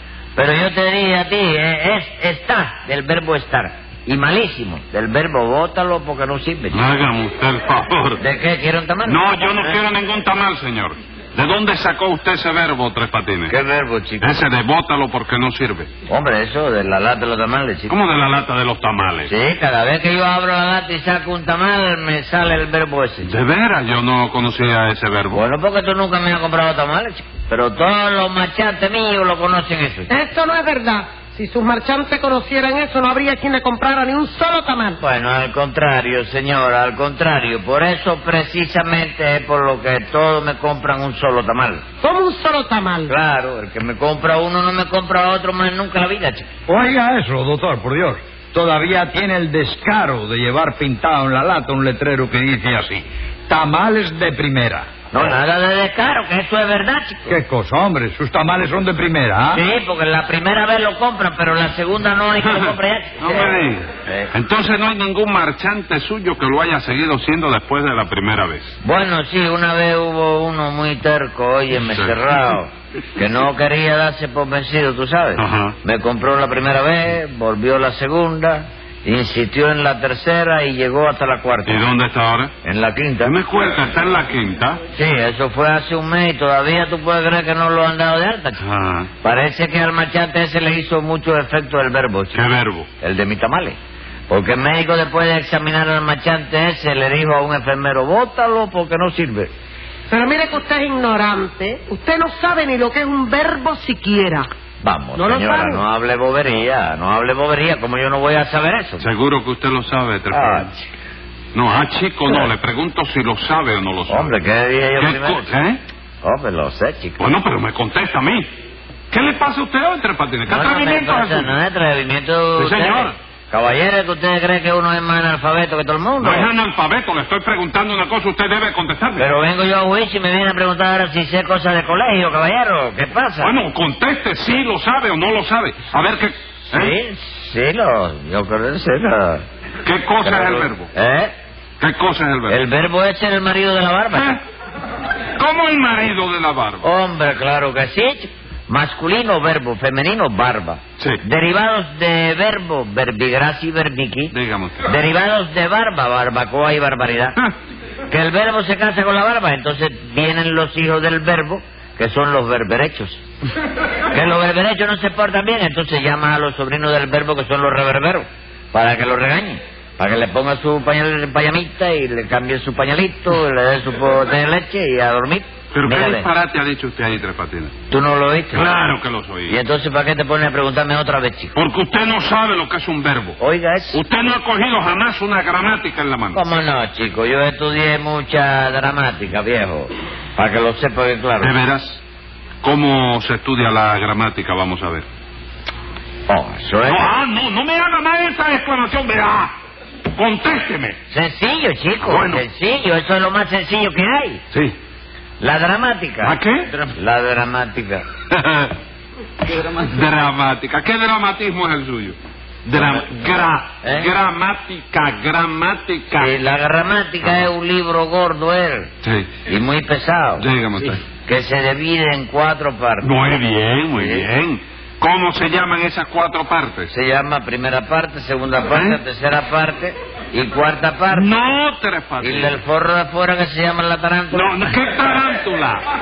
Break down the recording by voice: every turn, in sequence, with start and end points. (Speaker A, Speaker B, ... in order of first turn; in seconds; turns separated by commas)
Speaker A: 0.3-6.8, Speaker B: 6.7-8.2, Speaker A: 8.2-9.8, Speaker B: 9.0-13.5, Speaker A: 13.5-14.4, Speaker B: 14.2-15.9, Speaker A: 16.1-17.9, Speaker B: 17.9-19.3, Speaker A: 19.2-23.3, Speaker B: 23.2-25.4, Speaker A: 25.3-30.1, Speaker C: 30.1-35.0, Speaker A: 35.0-41.8, Speaker C: 42.0-43.1, Speaker A: 43.1-46.5, Speaker D: 46.7-54.9, Speaker A: 55.1-57.4, Speaker D: 57.3-59.6, Speaker A: 59.5-63.5, Speaker B: 62.4-68.7, Speaker A: 68.8-81.8, Speaker B: 71.8-72.1, Speaker B: 75.4-75.8, Speaker B: 81.7-82.5, Speaker A: 82.6-83.3, Speaker B: 83.2-84.8, Speaker A: 84.9-88.6, Speaker B: 88.6-89.1, Speaker A: 89.2-92.4, Speaker B: 92.3-92.9, Speaker A: 93.0-93.8, Speaker A: 94.3-99.5, Speaker C: 100.1-104.5, Speaker A: 104.8-109.1, Speaker C: 105.2-105.8, Speaker B: 109.0-110.7, Speaker A: 110.3-110.9, Speaker B: 111.5-114.3, Speaker A: 114.1-115.5, Speaker B: 115.0-115.8, Speaker A: 116.2-117.3, Speaker B: 117.2-118.5, Speaker B: 119.1-121.5, Speaker A: 120.5-126.5, Speaker B: 122.6-123.2, Speaker B: 126.2-129.3, Speaker A: 129.2-133.5, Speaker B: 133.4-136.9, Speaker A: 136.7-139.4, Speaker B: 139.8-140.9, Speaker A: 140.2-141.3, Speaker B: 141.8-142.6, Speaker A: 142.5-144.4, Speaker B: 144.1-144.4, Speaker B: 145.4-146.8, Speaker A: 146.8-154.3, Speaker B: 154.3-154.9, Speaker A: 154.8-157.4, Speaker A: 158.1-163.2, Speaker A: 164.1-176.3, Speaker B: 175.7-177.7, Speaker A: 177.9-178.7, Speaker B: 178.5-179.6, Speaker A: 179.5-181.5, Speaker B: 181.5-183.4, Speaker A: 183.4-184.0, Speaker B: 183.9-186.4, Speaker A: 186.3-191.5, Speaker B: 191.4-192.0, Speaker B: 192.6-195.1, Speaker A: 196.3-197.1, Speaker B: 196.8-199.5, Speaker B: 200.1-201.0, Speaker A: 201.1-204.4, Speaker B: 202.0-202.4, Speaker A: 205.4-206.4, Speaker B: 206.2-206.9, Speaker A: 206.9-208.0, Speaker B: 208.3-208.8, Speaker B: 209.4-216.3, Speaker A: 213.8-214.1, Speaker A: 216.2-218.9, Speaker B: 219.0-219.3, Speaker A: 219.5-220.4, Speaker B: 220.4-221.0, Speaker A: 221.2-223.1, Speaker B: 223.0-226.9, Speaker A: 223.9-224.3, Speaker A: 226.9-231.3, Speaker B: 228.7-229.0, Speaker B: 231.1-232.6, Speaker A: 232.2-234.5, Speaker B: 234.3-235.8